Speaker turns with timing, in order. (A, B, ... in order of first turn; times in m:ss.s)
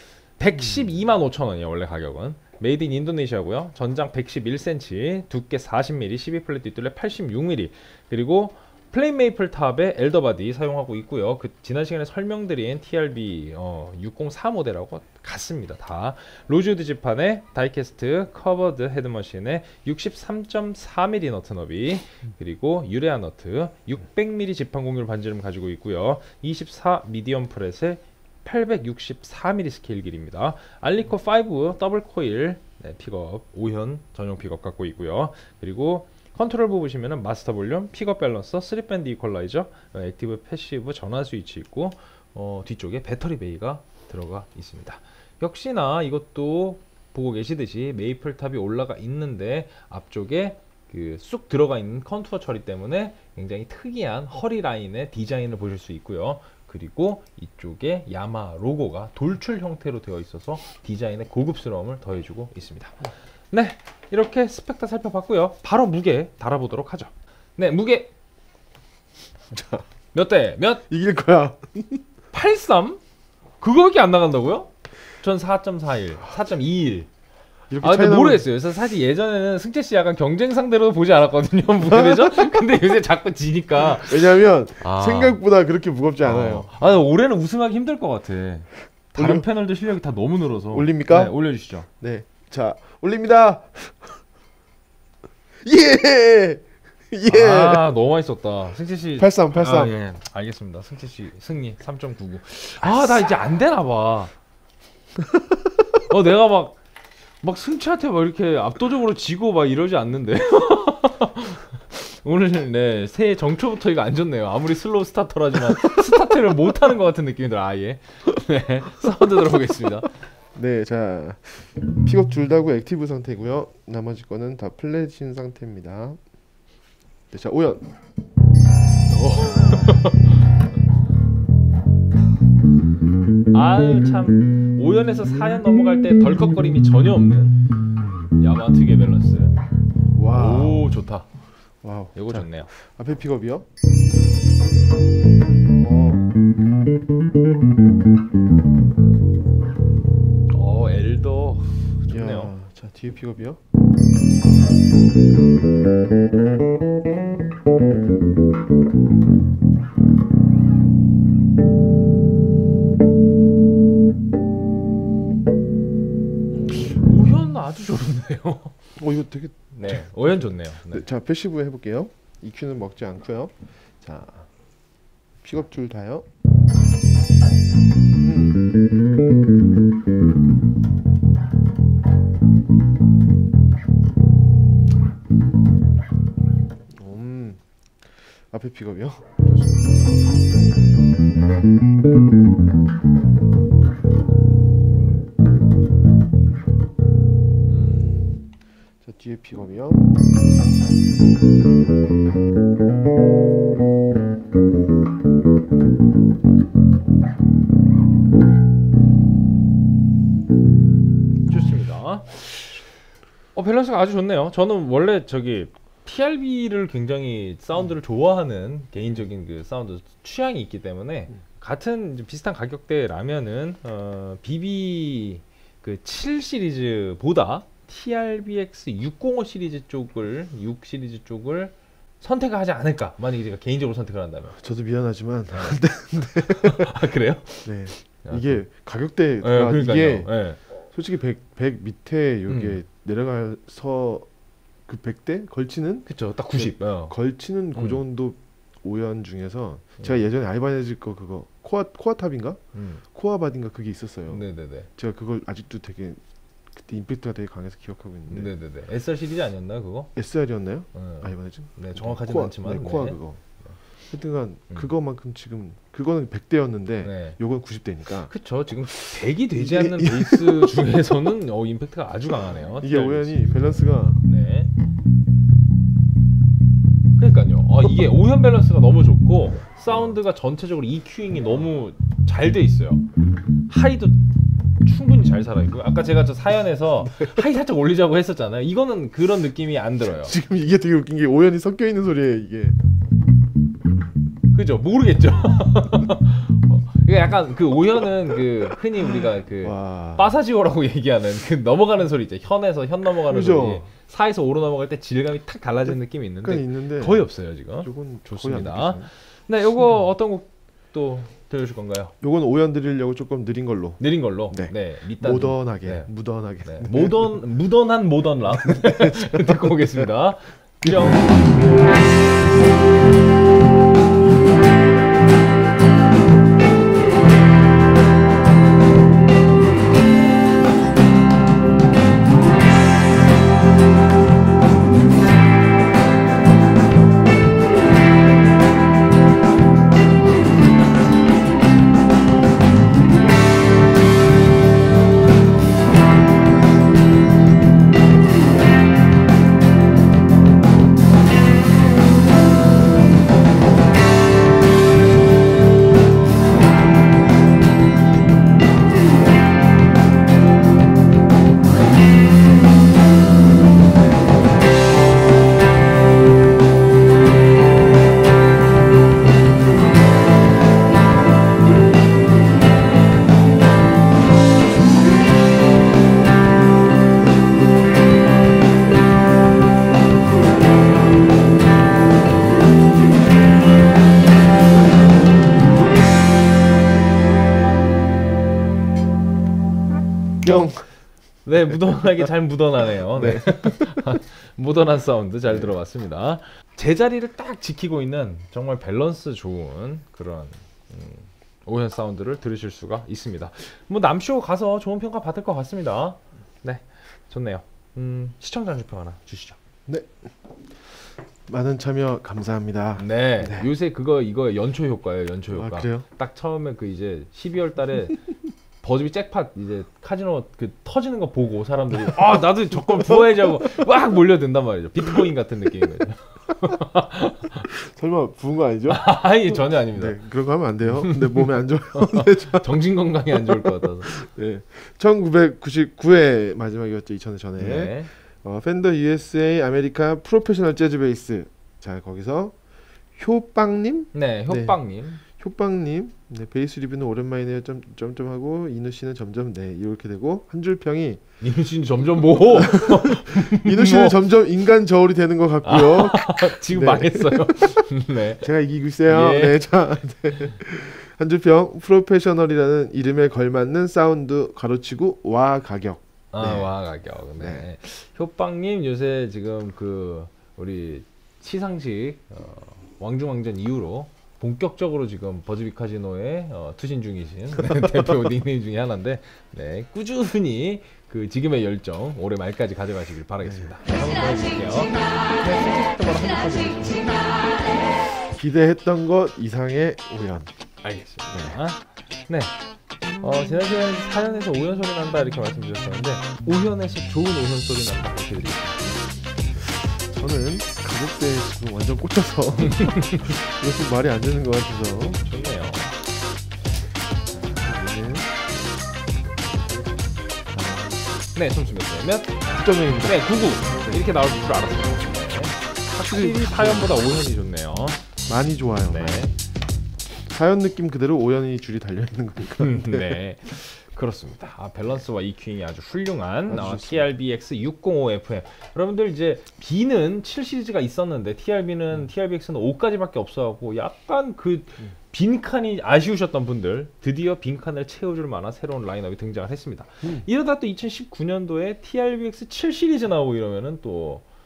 0:00.4-1:08.1 A
0:00.6-0:00.9 B
1:09.5-1:09.8 B
1:10.1-1:10.8 A
1:10.9-1:12.0 B
1:12.3-1:13.0 A
1:13.6-1:17.1 A
1:17.7-1:18.5 B
1:17.8-1:25.4 A
1:21.8-1:22.6 B
1:23.8-1:26.7 B
1:26.2-1:31.9 A
1:29.2-1:29.4 B
1:30.7-1:31.4 B
1:32.0-1:34.2 B
1:35.6-1:37.9 B
1:37.3-1:44.3 A
1:39.2-1:39.9 B
1:46.0-1:46.8 A
1:47.4-2:00.1 A
2:00.6-2:06.2 B
2:07.3-2:07.9 B
2:09.1-2:10.4 A
2:13.5-2:17.6 A
2:18.4-2:19.6 A
2:20.1-2:20.9 B
2:20.3-2:21.3 A
2:21.8-2:23.6 B
2:22.2-2:22.7 A
2:25.8-2:26.3 B
2:30.5-2:32.5 A
2:32.1-2:33.6 B
2:46.6-2:48.8 A
2:49.0-2:54.5 B
2:49.7-2:51.0 A
2:55.4-2:56.2 B
2:58.2-2:58.6 B
3:06.9-3:09.3 B
3:09.5-3:09.9 A
3:17.7-3:18.1 A
3:17.7-3:20.1 B
3:31.5-3:32.8 A
3:33.6-3:54.6 A
3:54.6-3:57.0 B
3:56.5-3:58.6 A
3:57.6-4:00.3 B
3:59.4-4:00.6 A
4:00.9-4:04.3 B
4:02.5-4:02.8 A
4:04.9-4:12.6 B
4:06.1-4:07.2 A
4:07.8-4:08.0 A
4:10.0-4:10.2 A
4:12.7-4:13.0 A
4:13.1-4:14.4 B
4:14.3-4:14.9 A
4:15.0-4:16.2 B
4:16.7-4:18.5 B
4:18.3-4:20.1 A
4:20.2-4:23.4 B
4:20.9-4:23.8 A
4:24.1-4:28.3 B
4:27.0-4:27.4 A
4:28.2-4:34.7 A
4:28.9-4:30.9 B
4:32.8-4:34.2 B
4:37.2-4:43.0 A
4:43.7-4:44.2 A
4:44.8-4:50.3 A
4:47.0-4:47.4 B
4:50.0-4:52.8 B
4:54.5-5:12.1 A
4:59.6-5:00.4 B
5:03.3-5:03.9 B
5:06.4-5:09.1 B
5:12.2-5:17.4 B
5:14.0-5:16.1 A
5:16.6-5:21.5 A
5:18.6-5:20.1 B
5:20.8-5:21.4 B
6:30.4-6:30.9 B
6:31.4-6:49.6 A
6:33.1-6:34.1 B
6:35.5-6:35.7 B
6:49.9-6:53.7 B
6:53.0-6:58.3 A
6:55.5-6:56.0 B
6:58.8-7:07.7 A
7:02.8-7:03.8 B
7:07.6-7:09.0 B
7:08.9-7:10.2 A
7:09.9-7:22.6 B
7:10.9-7:14.1 A
7:17.6-7:18.1 A
7:23.2-7:24.8 B
7:24.1-7:25.2 A
7:25.3-7:31.2 B
7:31.4-7:34.2 A
7:32.4-7:37.8 B
7:35.6-7:38.4 A
7:38.4-7:46.7 B
7:39.1-7:39.7 A
7:46.3-8:07.3 A
7:47.4-7:47.7 B
7:57.8-7:58.2 B
8:03.4-8:03.8 B
8:08.0-8:10.5 B
8:10.8-8:12.5 A
8:11.3-8:11.6 B
8:13.2-8:19.2 A
8:20.0-8:25.2 B
8:22.6-8:23.2 A
8:25.2-8:26.0 A
8:27.5-8:28.3 B
8:30.5-8:31.2 B
8:31.3-8:32.4 A
8:32.5-8:34.1 B
8:33.0-8:38.0 A
8:36.0-8:37.1 B
8:38.3-8:39.3 B
8:38.9-8:39.3 A
8:40.3-8:43.2 B
8:42.6-9:04.2 A
8:46.5-8:47.1 B